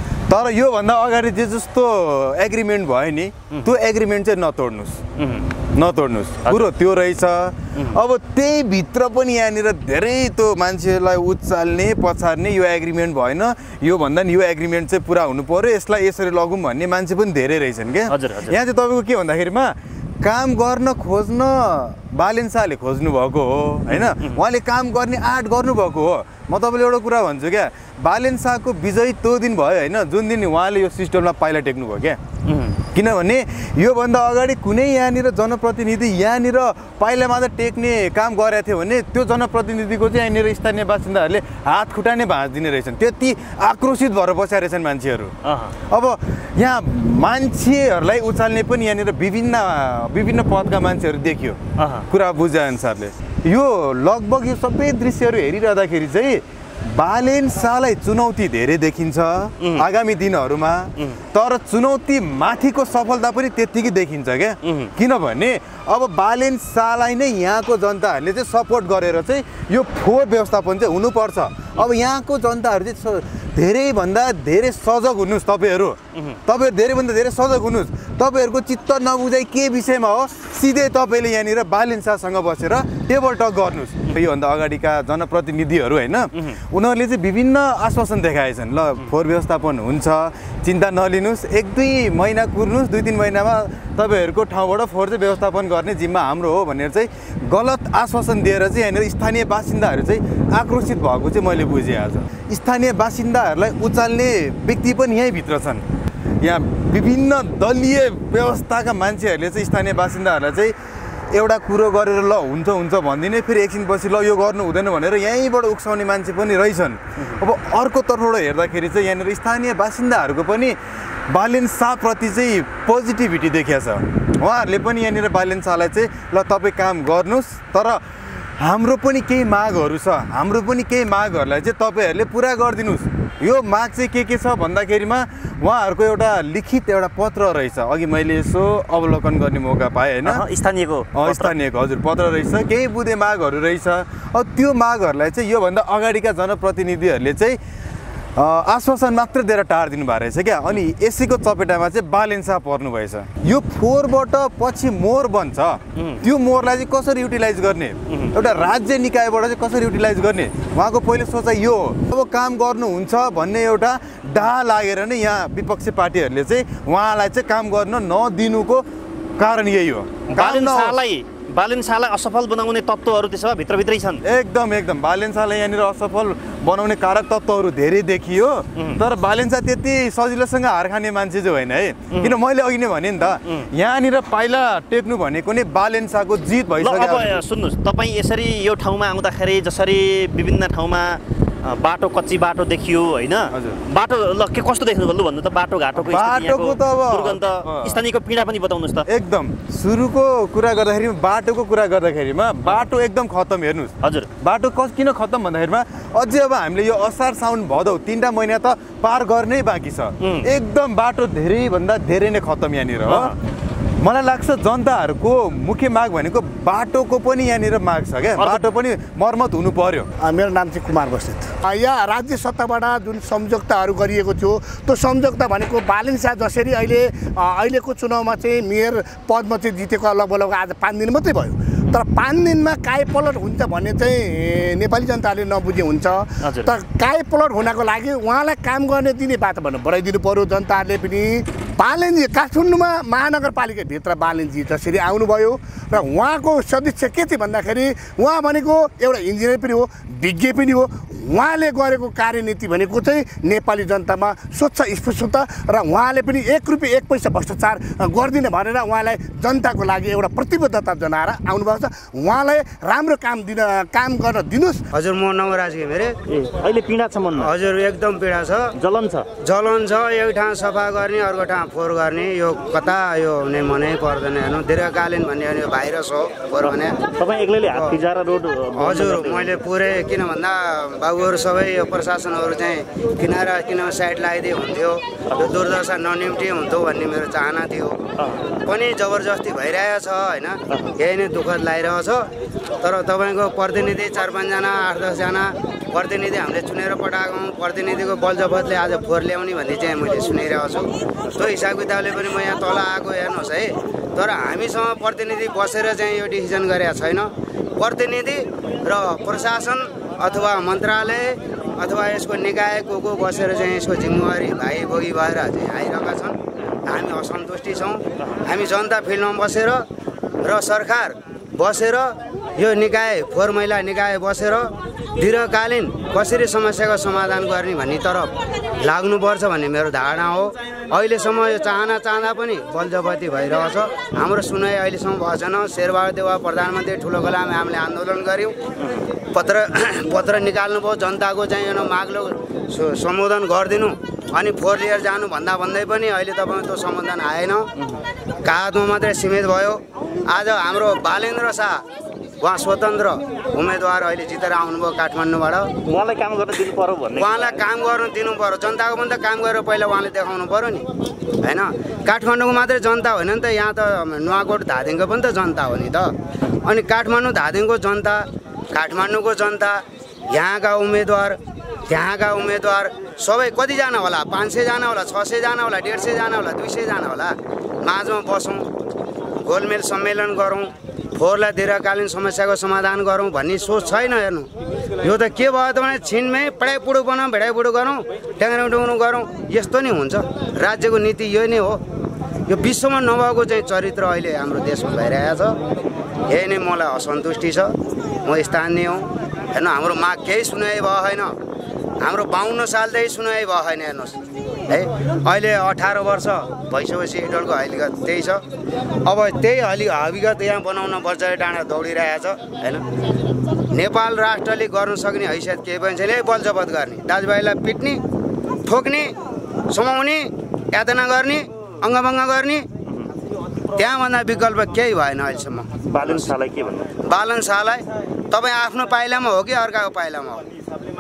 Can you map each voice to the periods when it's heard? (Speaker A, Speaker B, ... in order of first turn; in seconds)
Speaker A: 0.3-5.0, 5.7-32.2, 32.9-45.3, 45.9-51.6, 52.1-105.8, 106.4-110.8, 111.3-120.8, 121.3-128.0, 128.6-140.4, 141.1-147.6, 148.4-168.8, 169.4-171.0, 174.2-187.4, 193.5-193.8, 196.0-198.0, 199.1-213.3, 214.0-220.1
Speaker B: 5.2-5.5, 18.1-18.6, 23.9-24.4, 32.5-32.8, 45.4-45.8, 51.8-52.1, 59.6-59.9, 64.6-64.9, 76.1-76.4, 86.3-86.6, 140.2-141.5, 155.9-156.2, 158.1-158.3, 170.3-174.2, 182.1-182.4, 186.8-199.1, 204.0-204.3, 210.2-210.5, 213.1-213.4, 218.4-218.7, 236.4-236.7, 266.3-267.5, 268.7-269.3, 276.6-279.6, 355.9-357.6, 425.8-426.9
Speaker C: 220.2-264.9
Speaker D: 264.9-266.1, 267.4-268.7, 269.4-277.0, 278.8-288.0, 288.6-292.2, 292.8-319.8, 320.4-324.7, 325.2-338.6, 339.3-347.7, 348.5-349.8, 350.3-351.8, 352.4-355.7, 357.2-360.8, 361.4-366.1, 366.6-369.8, 370.3-371.4, 371.9-378.7, 379.4-384.5, 385.0-391.8, 392.5-395.6, 396.3-397.7, 398.2-401.3, 402.0-408.4, 409.1-412.8, 413.7-418.0, 418.7-419.1, 419.7-422.6, 423.8-426.3, 427.1-430.4